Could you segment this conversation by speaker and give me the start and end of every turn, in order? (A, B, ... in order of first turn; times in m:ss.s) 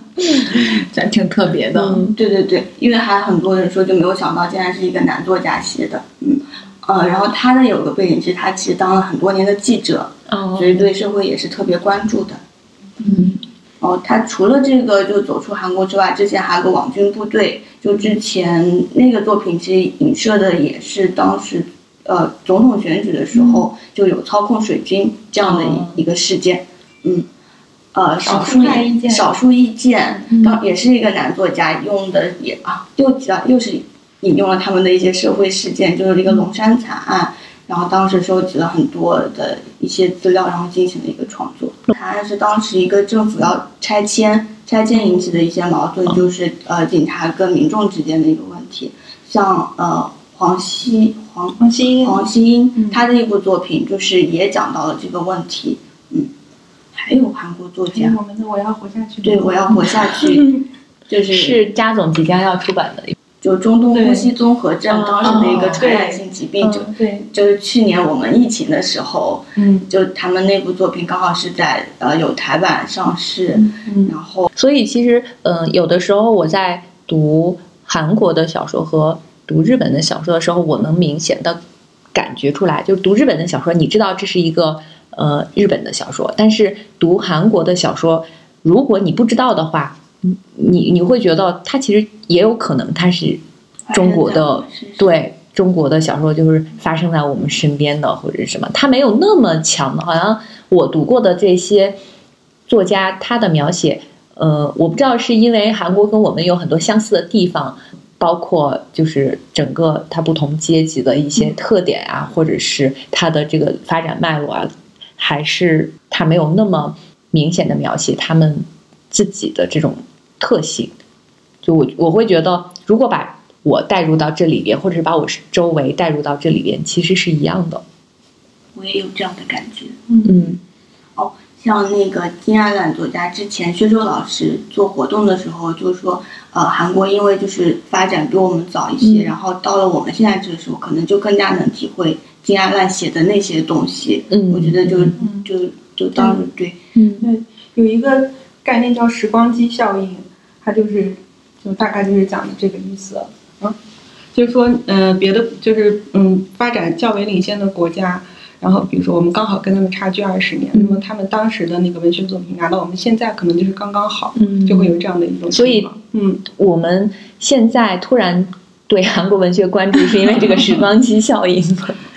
0:00.4-0:02.0 A
0:01.7-0:02.1 B
0:02.2-0:12.4 C
0:10.3-0:10.9 B
0:13.0-0:13.4 A
0:13.8-0:27.3 C
0:23.3-0:23.6 D
0:25.4-0:26.0 B
0:27.9-0:56.3 C
0:28.2-0:29.3 D
0:30.3-0:30.6 D
0:51.6-0:52.2 D
0:52.8-0:53.0 D
0:56.9-0:58.2 C
0:57.9-0:59.9 D
0:59.2-1:01.6 C
1:01.3-1:03.1 B
1:03.4-1:14.5 C
1:03.9-1:04.3 D
1:04.9-1:05.7 B
1:05.2-1:05.8 A
1:05.7-1:07.3 D
1:09.6-1:09.9 D
1:13.5-1:14.1 D
1:14.5-1:21.6 B
1:22.1-1:42.0 B
1:33.9-1:35.2 C
1:42.7-2:01.0 B
2:01.6-2:07.8 B
2:08.7-2:10.2 C
2:10.2-2:10.6 B
2:11.2-2:26.8 C
2:19.0-2:19.3 B
2:24.3-2:25.2 B
2:25.2-2:25.5 D
2:26.9-2:27.3 B
2:27.2-2:33.8 D
2:34.3-2:46.4 D
2:40.7-2:41.0 B
2:44.4-2:45.9 B
2:46.5-2:52.0 B